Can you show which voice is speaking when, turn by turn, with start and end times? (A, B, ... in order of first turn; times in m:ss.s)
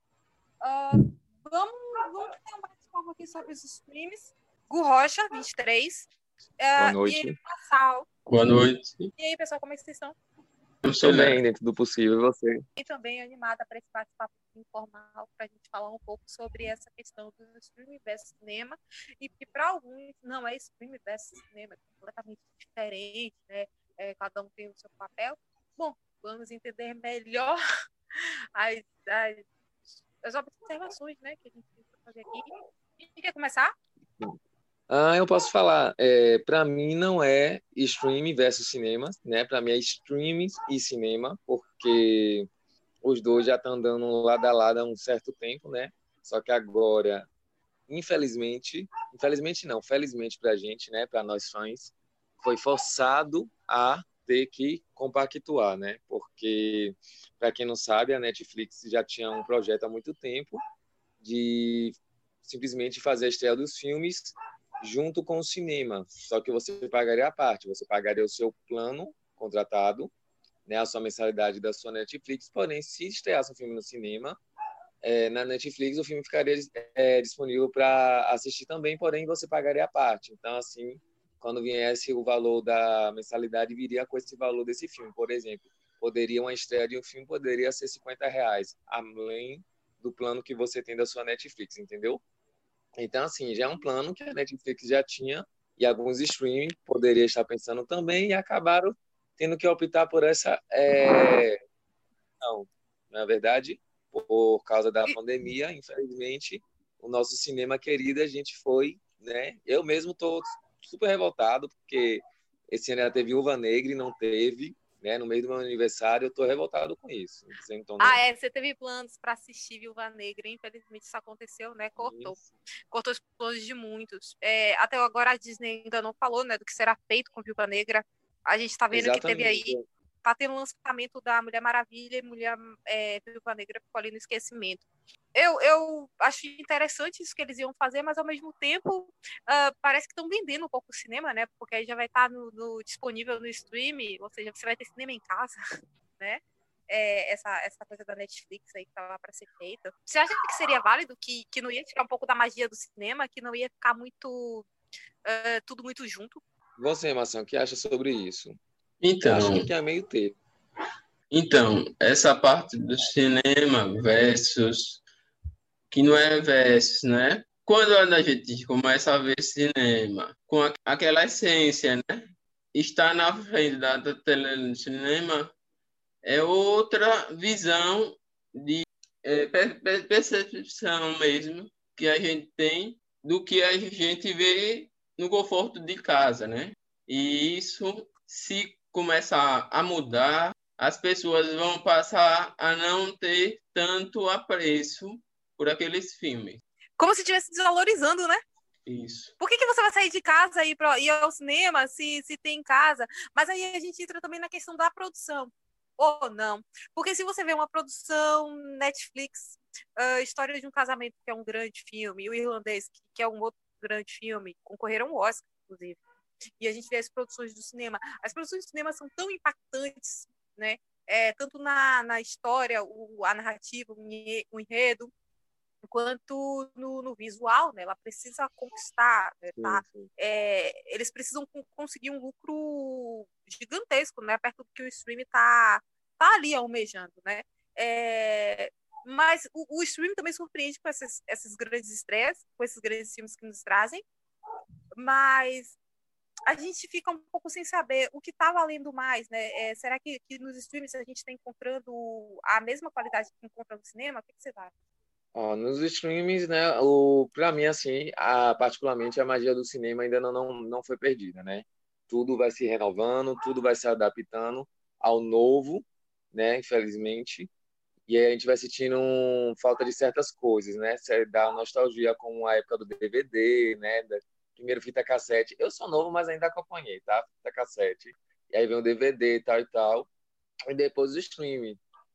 0:00.6-0:06.1 A
0:06.6-0:08.0 A
0:06.8-0:07.4 B
0:08.3-0:09.1 C
0:09.2-0:10.2 A
0:10.8-0:11.4 C
0:11.0-0:12.6 B
0:12.8-0:27.6 A
0:28.5-0:29.4 A
0:30.2-0:33.7 A
0:34.9-0:42.5 B
0:43.0-0:47.3 B
0:47.9-1:00.6 B
1:01.2-1:10.1 B
1:10.7-1:14.4 B
1:15.0-1:32.2 B
1:33.0-1:41.6 B
1:42.4-1:58.2 B
1:58.0-2:02.4 A
2:02.0-2:02.4 B
2:02.9-2:25.6 A
2:08.9-2:09.8 B
2:26.2-2:34.7 A
2:35.2-2:36.4 A
2:36.8-2:38.6 B
2:39.0-2:39.7 C
2:39.2-2:40.4 B
2:41.3-2:45.0 C
2:45.9-2:55.5 C
2:56.2-3:16.6 C
3:17.0-3:18.4 A
3:18.8-3:19.3 C
3:19.4-3:36.0 A
3:36.6-3:45.1 A
3:45.8-4:04.0 A
3:49.5-3:50.1 B
4:04.9-4:05.8 A
4:06.5-4:14.7 A
4:15.3-4:27.5 B
4:28.1-4:40.1 B
4:40.7-4:41.8 B